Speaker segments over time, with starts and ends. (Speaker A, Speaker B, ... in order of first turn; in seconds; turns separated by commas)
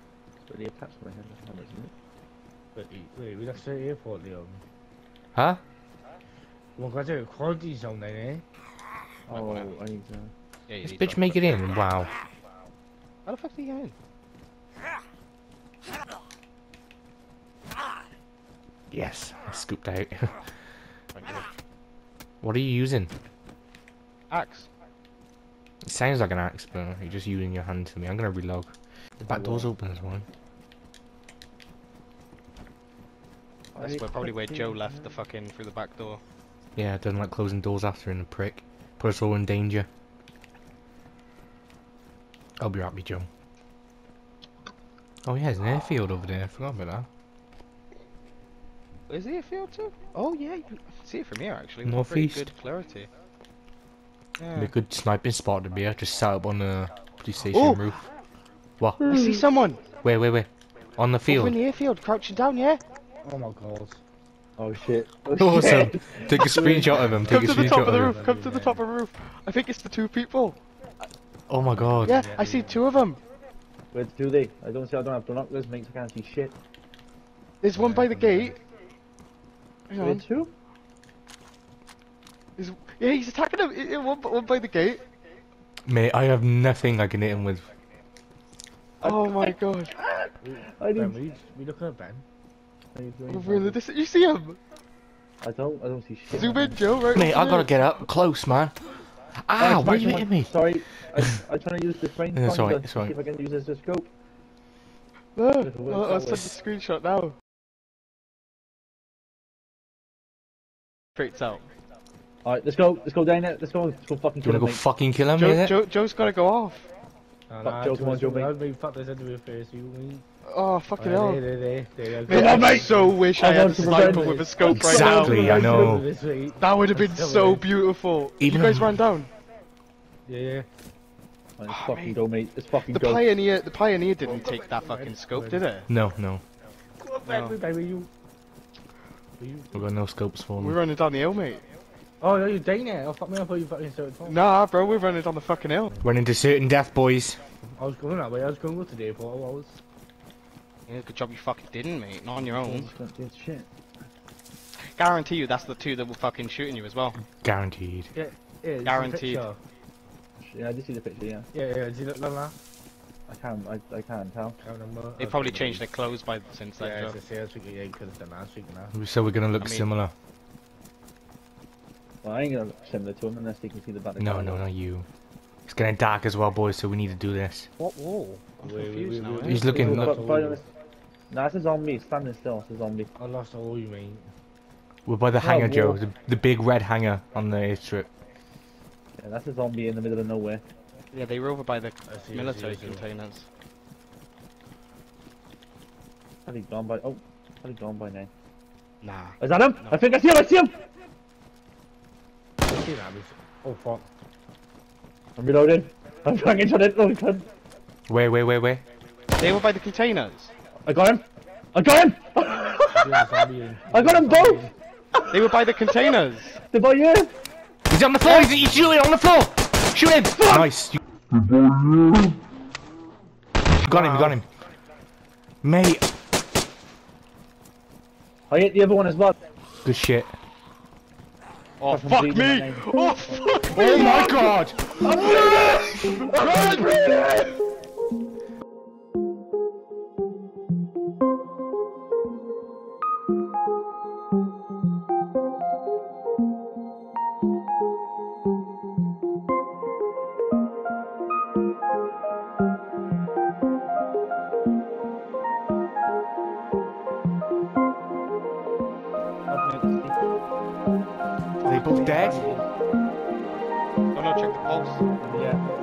Speaker A: 0.5-1.9, Speaker B: 2.7-4.6, Speaker C: 5.3-5.6, Speaker B: 6.8-8.4, Speaker A: 9.3-10.3, Speaker D: 9.3-9.7, Speaker D: 10.7-11.6, Speaker C: 10.8-12.1, Speaker D: 13.2-13.9, Speaker C: 18.9-20.5, Speaker D: 21.1-21.5, Speaker C: 22.4-23.1, Speaker D: 24.3-24.7, Speaker C: 25.8-30.2, Speaker A: 29.2-29.7, Speaker A: 33.7-35.2, Speaker D: 33.8-36.2, Speaker C: 36.8-39.9, Speaker C: 42.6-43.3, Speaker C: 45.2-47.1, Speaker D: 49.1-53.1, Speaker C: 51.8-52.5, Speaker D: 54.4-54.7, Speaker C: 54.5-58.0, Speaker D: 57.5-58.0, Speaker C: 58.8-59.1, Speaker D: 59.0-59.8, Speaker C: 60.0-61.6, Speaker D: 61.3-62.8, Speaker B: 63.2-64.0, Speaker A: 64.6-67.1, Speaker C: 65.3-68.2, Speaker B: 66.5-68.8, Speaker D: 67.3-70.6, Speaker C: 71.5-72.2, Speaker B: 71.7-72.9, Speaker D: 72.0-73.2, Speaker A: 73.9-76.5, Speaker D: 77.6-78.6, Speaker B: 77.7-78.6, Speaker D: 79.9-80.2, Speaker A: 80.0-80.5, Speaker D: 82.6-85.0, Speaker C: 85.8-87.7, Speaker D: 89.0-89.9, Speaker A: 89.0-91.2, Speaker B: 90.4-92.2, Speaker A: 92.9-93.8, Speaker D: 93.3-94.6, Speaker A: 95.4-96.8, Speaker D: 96.3-97.8, Speaker C: 97.1-98.8, Speaker C: 99.4-100.8, Speaker A: 99.6-104.1, Speaker C: 102.3-103.1, Speaker D: 105.3-107.3, Speaker A: 105.6-106.6, Speaker D: 111.2-111.6, Speaker A: 112.4-114.8, Speaker C: 114.4-115.8, Speaker D: 115.3-116.9, Speaker B: 117.5-120.2, Speaker A: 117.6-118.5, Speaker D: 120.5-121.4, Speaker B: 121.0-123.2, Speaker D: 122.2-125.6, Speaker A: 122.3-125.9, Speaker B: 123.8-124.5, Speaker C: 124.7-126.0, Speaker B: 125.1-127.7, Speaker D: 126.6-129.3, Speaker C: 128.4-129.0, Speaker B: 130.2-130.7, Speaker A: 131.6-133.3, Speaker D: 131.7-132.2, Speaker D: 132.9-135.9, Speaker B: 134.3-135.6, Speaker C: 135.9-136.4, Speaker B: 137.0-138.1, Speaker D: 137.2-137.6, Speaker B: 139.4-139.8, Speaker C: 139.7-140.8, Speaker D: 140.6-141.6, Speaker B: 142.2-144.4, Speaker D: 144.2-146.0, Speaker C: 146.0-147.4, Speaker B: 147.7-149.8, Speaker D: 150.9-152.9, Speaker A: 152.4-153.7, Speaker D: 154.9-157.2, Speaker C: 157.4-158.1, Speaker B: 158.1-159.6, Speaker D: 158.8-159.4, Speaker A: 160.4-161.5, Speaker B: 161.5-162.6, Speaker A: 163.3-164.6, Speaker B: 164.6-165.8, Speaker D: 165.2-167.2, Speaker B: 166.8-168.9, Speaker C: 168.9-170.1, Speaker D: 169.6-169.9, Speaker A: 172.2-174.6, Speaker C: 174.2-175.1, Speaker C: 175.7-177.7, Speaker D: 177.8-179.7, Speaker B: 178.6-180.6, Speaker C: 179.4-180.2, Speaker A: 179.7-180.7, Speaker A: 181.3-183.1, Speaker B: 183.2-184.3, Speaker C: 185.1-188.1, Speaker A: 185.4-186.0, Speaker A: 189.2-190.6, Speaker D: 191.1-193.5, Speaker B: 192.1-193.0, Speaker A: 196.4-198.3, Speaker D: 199.0-200.0, Speaker A: 199.4-200.8, Speaker B: 202.6-204.1, Speaker A: 205.4-207.5, Speaker C: 208.1-208.8, Speaker D: 209.4-210.5, Speaker A: 210.8-213.3, Speaker B: 212.9-214.7, Speaker A: 213.9-215.2, Speaker D: 215.3-216.6, Speaker A: 216.7-217.3, Speaker C: 217.9-221.0, Speaker A: 220.3-220.7, Speaker C: 223.8-224.4, Speaker B: 223.9-224.3, Speaker C: 225.6-226.1, Speaker A: 228.5-229.3, Speaker C: 229.8-230.3, Speaker D: 231.8-234.2, Speaker A: 231.9-234.2, Speaker C: 233.7-235.4, Speaker A: 235.0-237.5, Speaker A: 259.5-260.3, Speaker C: 261.6-262.4, Speaker B: 261.6-262.6, Speaker A: 261.7-262.6, Speaker D: 264.1-265.0, Speaker A: 265.2-265.6